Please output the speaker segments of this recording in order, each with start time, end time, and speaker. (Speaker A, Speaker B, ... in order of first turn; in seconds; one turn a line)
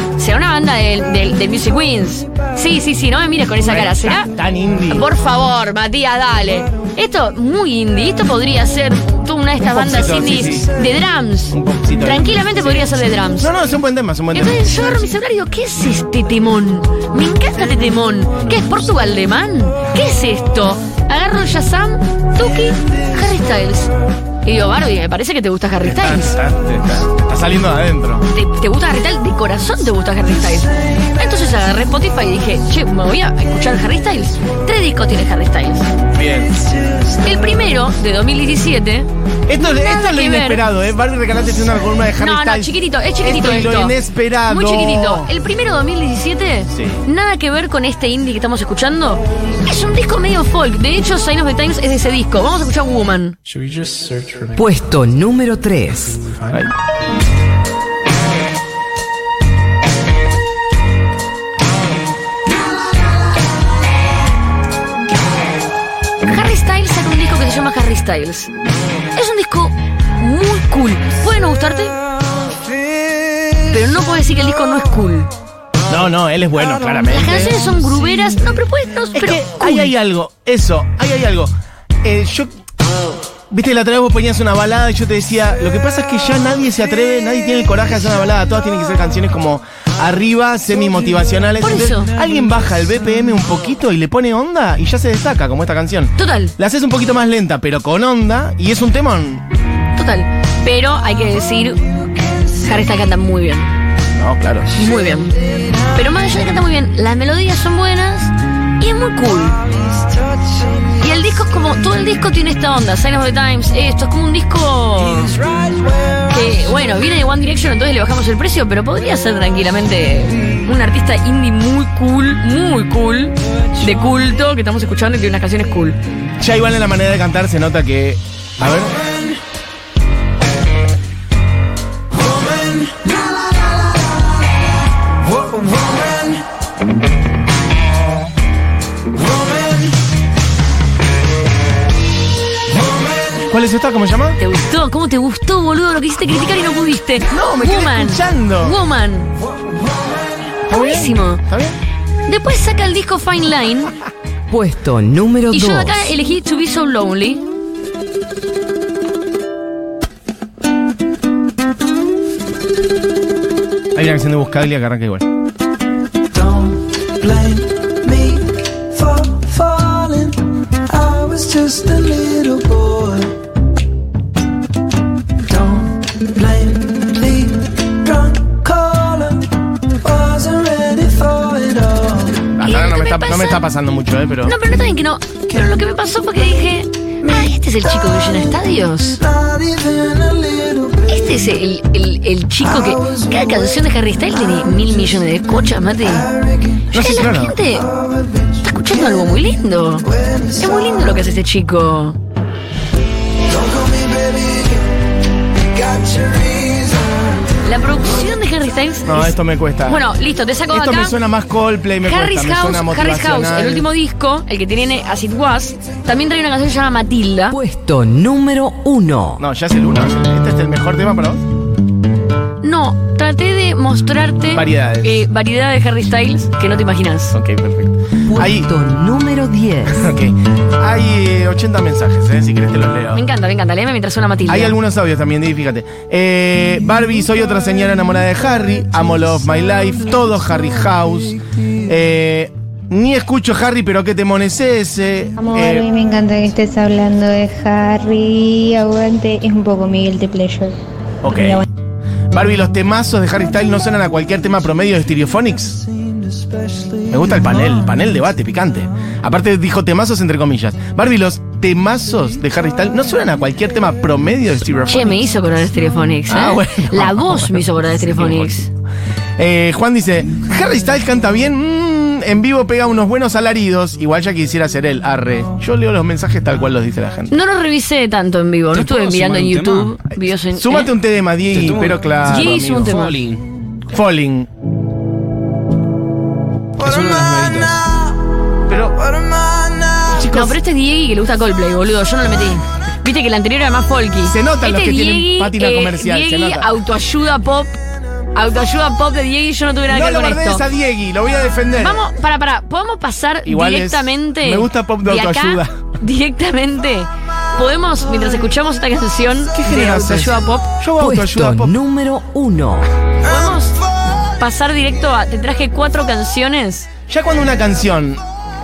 Speaker A: 0.2-4.3
Speaker B: 3.6-5.1
Speaker A: 4.9-13.5
Speaker B: 9.6-10.8
Speaker B: 11.5-15.1
Speaker A: 14.3-23.9
Speaker A: 24.4-26.4
Speaker B: 25.8-28.3
Speaker A: 28.3-35.9
Speaker B: 36.1-36.6
Speaker A: 37.2-40.6
Speaker B: 39.5-45.3
Speaker A: 42.2-53.4
Speaker B: 46.7-47.0
Speaker C: 53.5-55.0
Speaker D: 54.6-56.2
Speaker C: 55.9-56.7
Speaker A: 66.2-68.5
Speaker A: 69.1-72.0
Speaker A: 73.7-75.3
Speaker B: 75.9-77.7
Speaker A: 77.1-79.9
Speaker B: 79.1-82.5
Speaker B: 83.5-99.5
Speaker A: 91.6-92.1
Speaker A: 96.2-96.5
Speaker A: 100.0-101.9
Speaker A: 102.6-103.7
Speaker B: 104.1-104.8
Speaker A: 104.7-105.3
Speaker A: 105.9-109.6
Speaker A: 111.0-115.4
Speaker A: 116.3-126.0
Speaker B: 126.4-129.0
Speaker B: 143.5-144.4
Speaker A: 144.4-149.3
Speaker B: 147.3-148.8
Speaker A: 150.7-151.4
Speaker B: 150.7-151.8
Speaker A: 152.3-153.9
Speaker D: 154.5-156.1
Speaker A: 155.5-157.4
Speaker B: 163.9-165.3
Speaker E: 166.3-170.4
Speaker E: 170.9-173.3
Speaker E: 175.5-179.5
Speaker E: 180.0-182.4
Speaker B: 182.5-184.6
Speaker A: 182.6-183.6
Speaker A: 184.4-189.2
Speaker E: 189.3-191.0
Speaker A: 191.1-196.3
Speaker A: 196.9-197.9
Speaker B: 196.9-197.6
Speaker A: 198.6-202.2
Speaker E: 203.7-204.7
Speaker E: 205.8-207.0
Speaker A: 207.7-209.3
Speaker B: 209.1-210.1
Speaker A: 209.9-211.2
Speaker B: 210.7-213.9
Speaker A: 212.0-217.6
Speaker D: 217.5-219.4
Speaker B: 219.4-221.4
Speaker A: 222.6-227.3
Speaker B: 224.5-225.2
Speaker B: 227.3-228.7
Speaker D: 228.3-230.1
Speaker B: 229.9-233.2
Speaker A: 233.1-234.8
Speaker B: 234.5-245.9
Speaker F: 245.4-250.8
Speaker B: 251.2-251.7
Speaker F: 251.3-251.7
Speaker B: 252.3-255.8
Speaker B: 257.1-265.3
Speaker A: 264.9-268.7
Speaker B: 266.3-268.6
Speaker B: 269.4-277.4
Speaker A: 277.3-280.9
Speaker C: 278.7-280.0
Speaker B: 280.6-283.0
Speaker C: 281.5-283.4
Speaker A: 282.2-283.2
Speaker B: 283.9-284.5
Speaker C: 286.8-287.9
Speaker B: 288.7-289.1
Speaker B: 290.1-290.6
Speaker A: 290.3-297.8
Speaker B: 294.2-296.7
Speaker A: 298.4-300.6
Speaker B: 299.9-302.1
Speaker A: 301.8-310.7
Speaker B: 303.4-305.8
Speaker B: 309.6-311.8
Speaker D: 311.0-312.9
Speaker A: 313.2-313.8
Speaker A: 314.4-316.9
Speaker B: 317.1-318.2